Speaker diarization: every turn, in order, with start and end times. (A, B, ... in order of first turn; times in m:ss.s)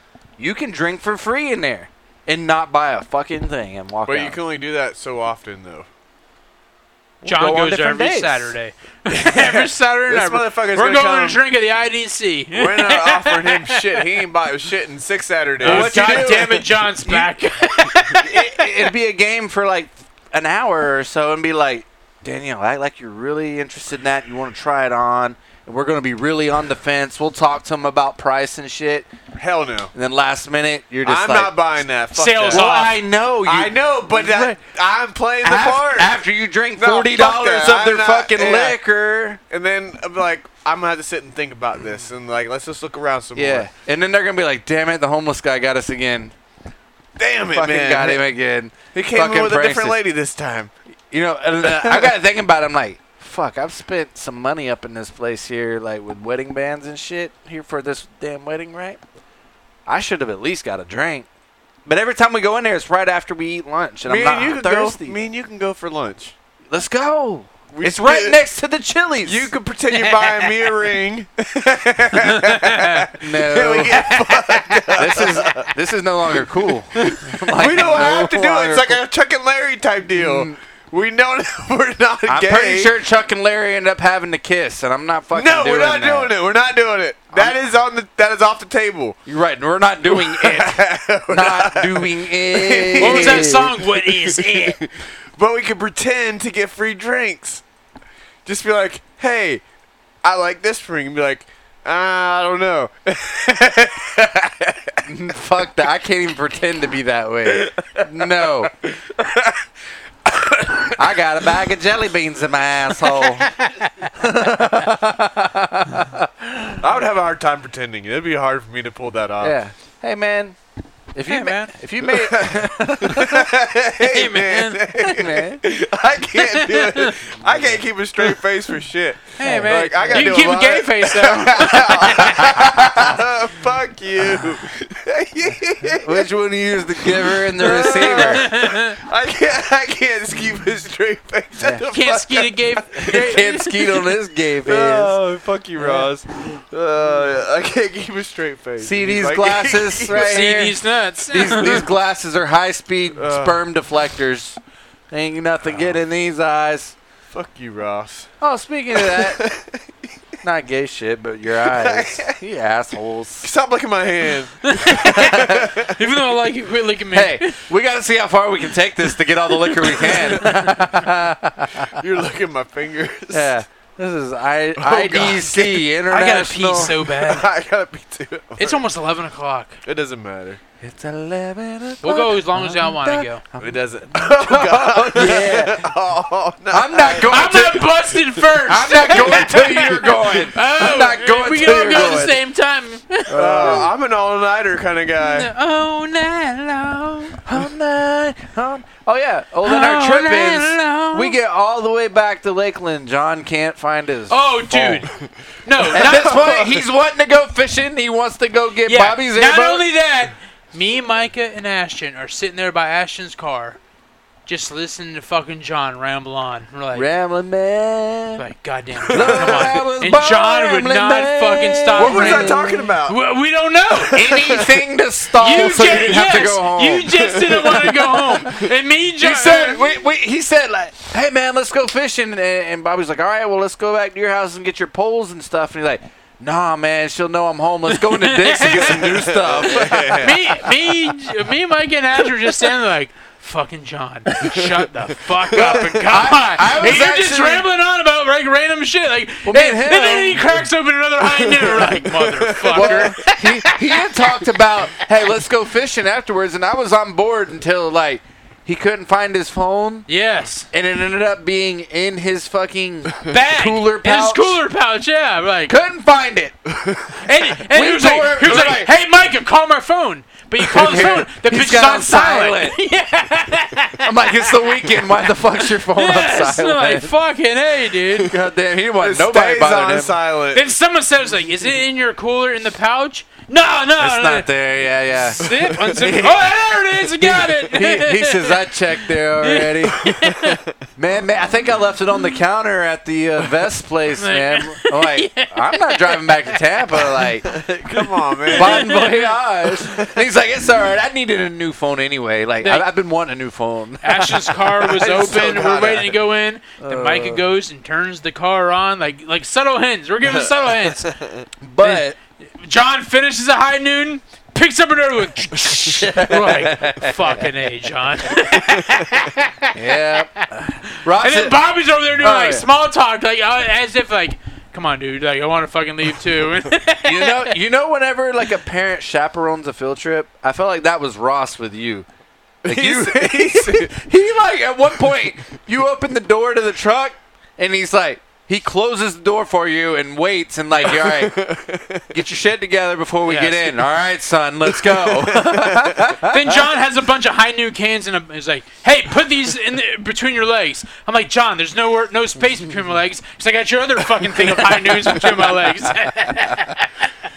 0:00.4-0:04.4 A
0:04.1-0:05.9 B
0:07.2-0:08.5 A
0:07.2-0:14.0 C
0:09.1-0:11.4 B
0:12.5-0:16.5 B
0:15.6-0:17.3 A
0:15.6-0:18.7 C
0:18.1-0:29.1 A
0:29.3-0:29.9 B
0:29.9-0:31.5 A
0:31.0-0:32.9 B
0:32.1-0:33.0 C
0:32.5-0:34.6 A
0:33.4-0:36.2 B
0:35.4-0:39.4 A
0:36.8-0:38.8 B
0:39.5-0:43.7 B
0:43.3-0:46.3 A
0:47.2-0:48.2 B
0:47.5-0:50.0 A
0:48.9-0:50.7 B
0:51.1-0:59.0 A
0:51.6-0:52.1 B
0:59.8-1:01.3 A
1:01.8-1:05.2 A
1:04.0-1:06.3 B
1:06.7-1:09.5 A
1:07.7-1:08.4 B
1:09.2-1:15.7 B
1:09.9-1:10.5 C
1:12.2-1:13.0 C
1:13.2-1:14.0 A
1:14.0-1:14.9 C
1:14.9-1:19.0 A
1:17.0-1:22.9 B
1:20.1-1:20.6 A
1:22.3-1:26.3 A
1:25.3-1:29.2 B
1:29.2-1:33.7 A
1:30.1-1:37.6 B
1:33.0-1:34.8 C
1:38.4-1:39.6 B
1:40.2-1:45.0 B
1:45.0-1:48.7 A
1:47.5-1:49.6 B
1:50.2-1:51.2 B
1:51.0-1:53.5 A
1:53.6-1:54.1 C
1:54.1-1:56.8 A
1:56.8-1:59.6 B
1:59.4-2:00.6 A
2:01.1-2:03.5 A
2:01.3-2:01.7 C
2:02.0-2:16.3 B
2:04.0-2:04.8 C
2:05.0-2:05.6 A
2:06.3-2:07.2 C
2:09.4-2:12.5 C
2:09.4-2:10.4 A
2:12.2-2:13.1 A
2:15.9-2:18.5 A
2:17.0-2:23.3 B
2:17.8-2:19.0 C
2:21.6-2:21.9 A
2:21.9-2:24.0 C
2:23.0-2:25.2 A
2:24.6-2:30.4 B
2:25.8-2:26.1 A
2:28.8-2:34.6 A
2:30.2-2:31.9 C
2:33.2-2:33.6 B
2:35.1-2:36.9 A
2:35.6-2:36.0 B
2:37.3-2:38.3 B
2:38.4-2:39.4 A
2:38.9-2:39.8 B
2:40.4-2:43.5 A
2:41.6-2:42.4 B
2:43.4-2:46.0 B
2:44.6-2:47.6 C
2:45.0-2:45.7 A
2:47.1-2:52.0 A
2:49.6-2:51.0 C
2:49.8-2:50.4 B
2:51.8-2:53.6 B
2:53.3-2:56.9 A
2:54.8-2:55.8 B
2:56.1-2:57.5 C
2:57.0-2:58.8 B
2:58.6-2:59.8 C
2:59.8-3:00.6 B
3:00.8-3:05.9 A
3:02.0-3:03.4 C
3:03.6-3:07.6 B
3:06.7-3:07.9 A
3:07.2-3:13.9 C
3:08.6-3:12.4 A
3:13.3-3:13.9 A
3:13.3-3:15.5 B
3:15.2-3:17.4 C
3:17.4-3:25.1 A
3:19.6-3:21.4 C
3:24.3-3:25.1 C
3:25.1-3:26.9 B
3:25.6-3:26.5 C
3:25.9-3:29.8 A
3:28.8-3:33.8 C
3:34.5-3:37.1 C
3:36.9-3:38.4 A
3:38.4-3:44.3 C
3:39.1-3:39.8 B
3:39.1-3:43.0 A
3:41.9-3:43.2 B
3:44.0-3:44.8 B
3:44.1-3:47.3 A
3:45.4-3:49.8 C
3:47.3-3:47.9 B
3:48.2-4:00.4 A
3:57.9-3:59.3 C
3:58.9-4:00.5 B
3:59.8-4:14.7 C
4:04.4-4:04.7 A
4:05.5-4:06.1 B
4:05.5-4:07.7 A
4:09.4-4:10.7 A
4:11.4-4:13.1 B
4:12.7-4:20.1 A
4:20.1-4:20.7 C
4:20.7-4:24.6 A
4:23.2-4:25.7 C
4:25.7-4:26.6 A
4:26.8-4:27.1 B
4:27.2-4:35.1 C
4:27.6-4:28.9 A
4:30.7-4:32.8 A
4:34.0-4:37.1 A
4:35.6-4:38.3 C
4:38.1-4:40.2 A
4:39.0-4:40.6 B
4:40.5-4:44.5 C
4:44.0-4:46.4 A
4:45.2-4:48.7 C
4:45.4-4:46.9 B
4:47.2-4:50.3 A
4:49.4-4:50.6 C
4:50.0-4:50.7 B
4:51.0-4:57.6 A
4:54.2-4:56.6 C
4:57.2-4:59.1 B
4:58.5-4:59.3 C
4:58.5-5:05.2 A
4:59.8-5:00.2 B
5:04.0-5:11.1 C
5:04.9-5:06.2 B
5:06.8-5:07.5 A
5:10.3-5:11.4 B
5:11.6-5:12.2 A
5:11.8-5:12.1 C
5:12.6-5:27.6 C
5:15.5-5:17.5 A
5:18.8-5:19.1 B
5:19.7-5:21.6 A
5:22.2-5:22.7 A
5:27.0-5:32.1 A
5:32.6-5:34.0 B
5:32.6-5:41.4 A
5:40.8-5:42.1 B
5:42.1-5:46.6 A
5:43.2-5:43.8 C
5:44.6-5:46.1 B
5:46.2-5:57.1 C
5:54.4-5:56.6 A